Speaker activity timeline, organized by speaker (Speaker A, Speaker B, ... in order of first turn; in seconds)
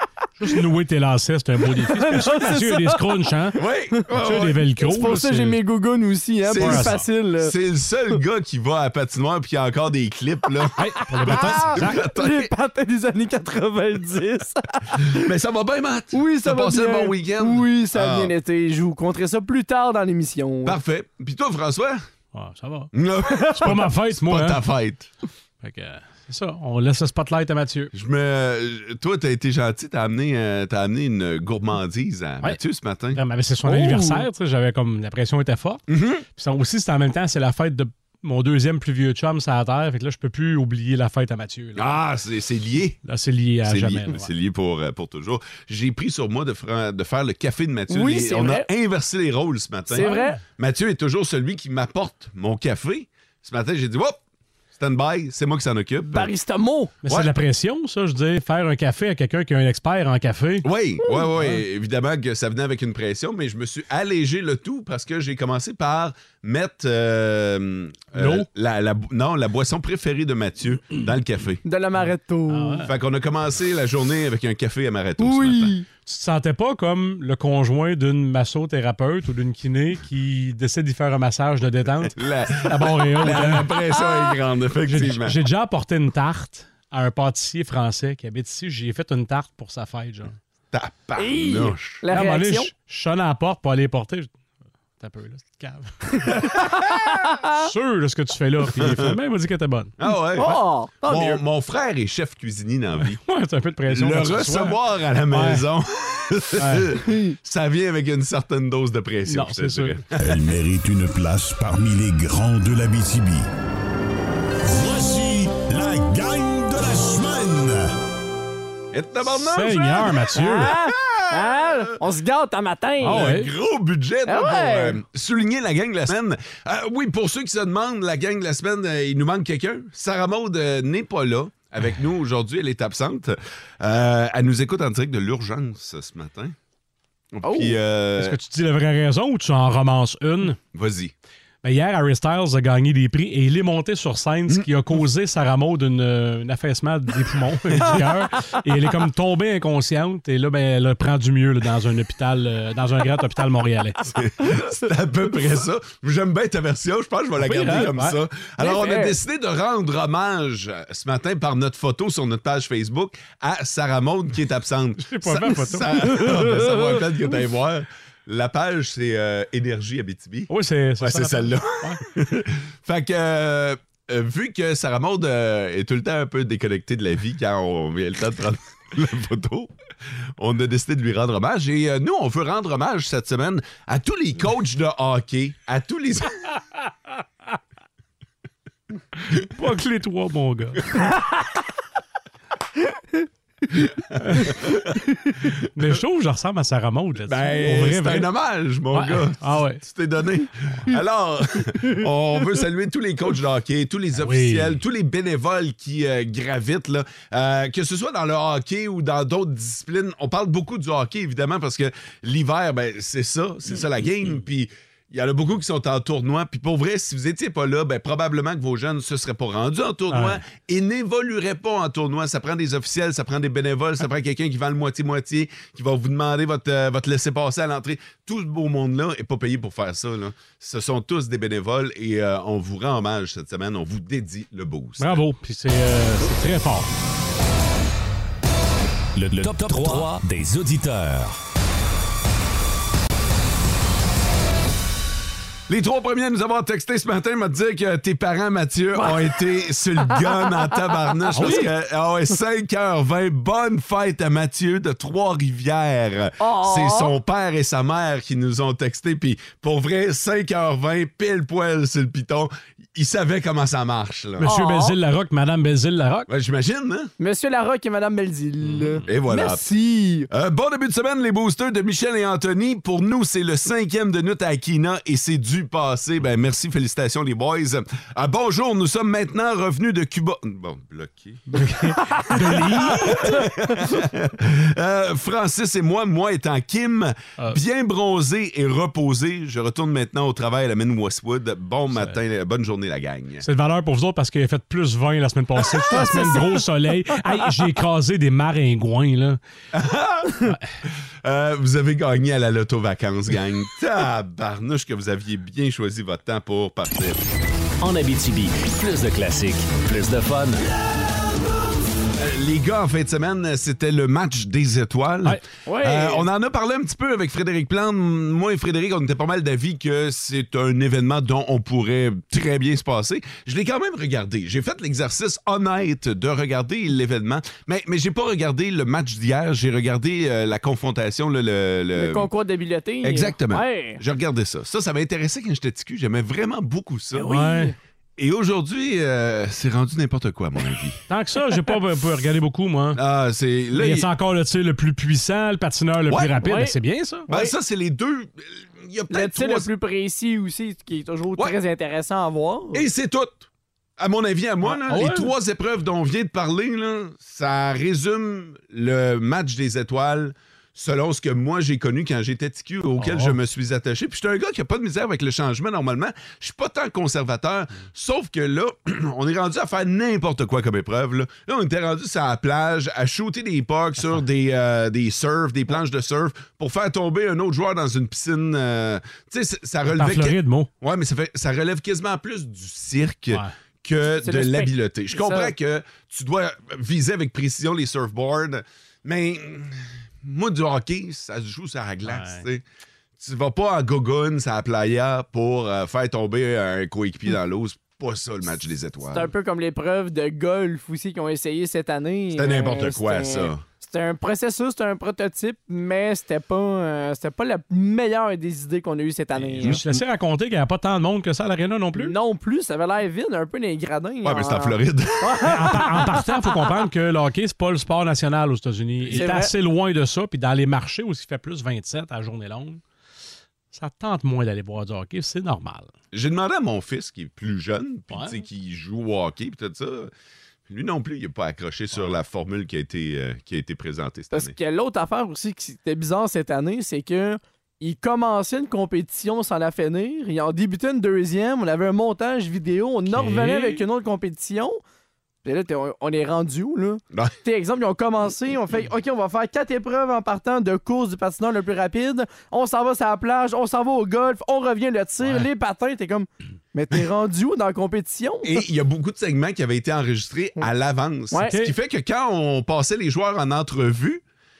Speaker A: 0.4-5.6, 6.5-7.1, 10.8-12.0, 22.3-22.9, 23.6-24.6, 25.6-27.9, 33.1-41.9, 43.0-44.3, 50.0-50.4, 57.0-60.6, 68.1-68.5, 72.5-72.9, 76.0-83.8, 84.8-90.4, 92.1-94.3, 95.0-96.3, 97.5-99.9, 103.2-105.6, 106.6-107.0, 109.3-110.0, 119.2-120.7, 123.0-123.5, 138.2-140.6, 141.6-154.0, 157.4-158.2, 165.0-166.5, 170.5-172.0, 189.5-190.9, 195.7-198.3, 198.9-199.8, 204.2-204.8, 220.1-220.4, 235.0-236.9, 251.3-251.7, 264.4-266.3, 268.6-269.0, 281.6-283.4, 293.4-299.4, 337.3-337.7, 341.1-343.0, 343.7-347.3, 354.7-355.3, 363.0-363.4, 379.9-380.7, 392.1-392.4, 409.7-412.1, 415.4-422.8, 423.7-425.9, 428.1-428.4, 443.1-443.8, 461.5-461.7
Speaker B: 1.8-3.3, 4.8-7.5, 11.1-15.2, 16.1-20.8, 33.6-34.2, 47.9-48.7, 49.9-50.4, 56.1-56.9, 71.6-72.8, 75.2-75.8, 91.2-92.7, 96.2-97.6, 100.3-101.4, 107.0-107.3, 120.3-123.3, 124.2-125.0, 137.4-137.8, 158.6-159.1, 166.2-166.6, 248.9-249.4, 251.3-251.7, 256.4-257.1, 264.4-264.9, 267.2-270.3, 295.9-296.6, 315.6-316.2, 331.9-334.0, 337.1-337.7, 346.4-346.8, 347.3-347.5, 349.1-352.8, 384.2-385.5, 399.1-409.8, 411.9-416.5, 419.1-419.5, 434.3-444.8, 445.4-458.5, 461.3-461.6
Speaker C: 3.5-4.7, 6.5-12.5, 15.1-18.3, 20.6-22.0, 22.9-25.1, 27.9-33.2, 35.9-36.2, 41.8-43.0, 43.6-54.2, 54.7-56.3, 57.1-57.3, 60.6-71.6, 72.8-75.7, 82.2-85.4, 90.7-92.0, 98.7-99.2, 100.0-103.2, 103.9-110.3, 118.9-121.9, 123.0-136.5, 137.3-138.4, 140.7-141.1, 154.2-179.7, 180.4-186.5, 194.1-194.9, 197.2-235.2, 245.7-264.5, 266.3-267.1, 269.1-269.6, 270.3-293.4, 299.7-300.5, 301.2-307.2, 312.1-332.3, 333.0-337.4, 338.2-341.0, 342.9-344.1, 346.1-346.4, 347.3-349.7, 352.7-353.5, 354.0-392.6, 393.2-399.3, 402.3-403.6, 409.4-409.8, 414.2-415.9, 426.1-430.1, 430.7-434.5, 458.4-464.2
Speaker D: 110.2-113.5, 114.6-117.9, 239.4-240.1
Speaker E: 239.2-241.4, 307.8-310.6